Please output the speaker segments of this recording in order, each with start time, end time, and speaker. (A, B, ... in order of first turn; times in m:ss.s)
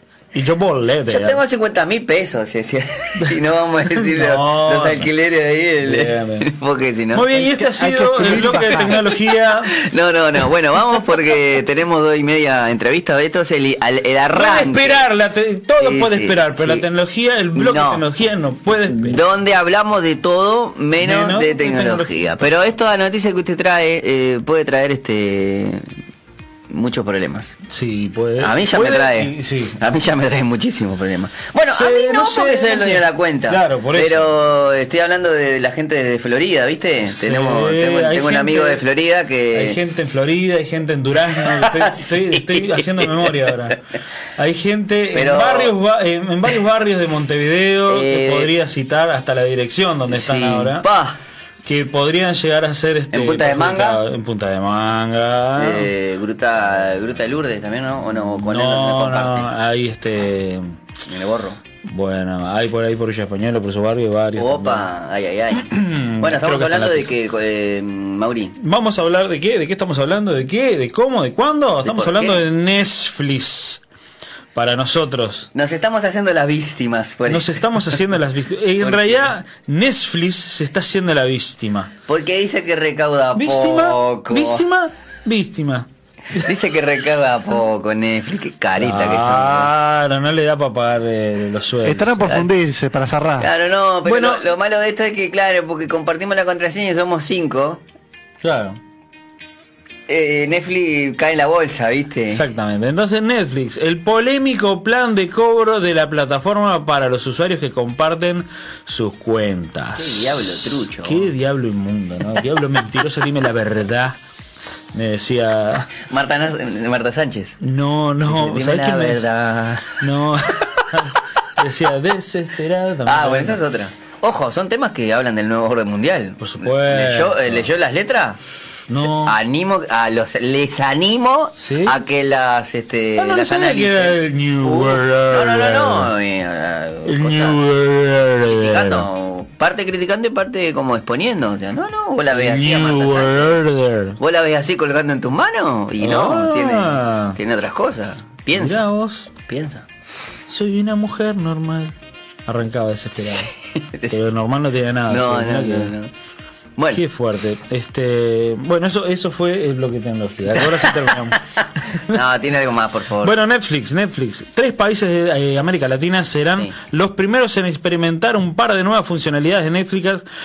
0:00.3-0:01.4 A
0:01.1-0:07.2 B
0:03.9-0:05.1 A
0:05.8-0:06.5 A
0:07.1-0:09.8 A
0:07.3-0:09.0 C
0:08.7-0:09.2 B
0:09.7-0:15.1 B
0:14.3-0:19.2 A
0:15.8-0:16.9 B
0:17.5-0:18.0 B
0:19.0-0:25.8 B
0:21.0-0:22.5 A
0:26.7-0:27.5 B
0:27.7-0:29.8 A
0:28.4-0:39.8 B
0:31.6-0:34.3 A
0:37.0-0:38.8 A
0:39.5-0:43.8 A
0:41.4-0:43.7 B
0:44.4-0:50.8 A
0:45.1-0:45.7 B
0:47.9-0:48.5 B
0:50.1-0:51.2 B
0:51.6-0:55.9 A
0:53.1-0:54.0 B
0:55.6-0:59.5 B
0:58.4-1:00.7 A
1:01.1-1:01.6 B
1:01.8-1:04.9 A
1:04.4-1:08.5 B
1:05.5-1:07.1 A
1:08.6-1:13.8 A
1:11.8-1:12.4 B
1:14.5-1:15.5 A
1:15.5-1:18.0 B
1:17.3-1:21.9 A
1:18.8-1:19.3 B
1:22.1-1:24.6 B
1:23.4-1:26.5 A
1:26.4-1:29.7 B
1:28.8-1:32.4 A
1:31.8-1:33.5 C
1:33.4-1:37.8 B
1:34.0-1:34.4 A
1:38.4-1:38.8 A
1:40.1-1:42.4 B
1:42.3-1:54.2 A
1:49.9-1:51.3 B
1:54.9-1:55.9 A
1:56.1-1:57.6 B
1:57.6-1:59.3 A
1:58.2-2:00.0 B
2:00.0-2:03.6 A
2:03.0-2:08.4 B
2:06.4-2:07.7 A
2:08.9-2:09.4 A
2:09.0-2:17.6 B
2:11.6-2:12.0 A
2:13.2-2:16.1 A
2:17.0-2:19.1 A
2:18.4-2:23.6 B
2:22.3-2:24.2 A
2:24.2-2:28.8 B
2:26.0-2:27.4 A
2:28.5-2:29.3 A
2:29.5-2:29.8 B
2:30.5-2:31.9 A
2:32.4-2:33.5 A
2:33.2-2:34.2 B
2:34.1-2:35.9 A
2:35.1-2:36.1 B
2:36.8-2:37.0 B
2:36.9-2:42.2 A
2:40.5-2:41.2 B
2:42.1-2:43.3 B
2:43.2-2:50.2 A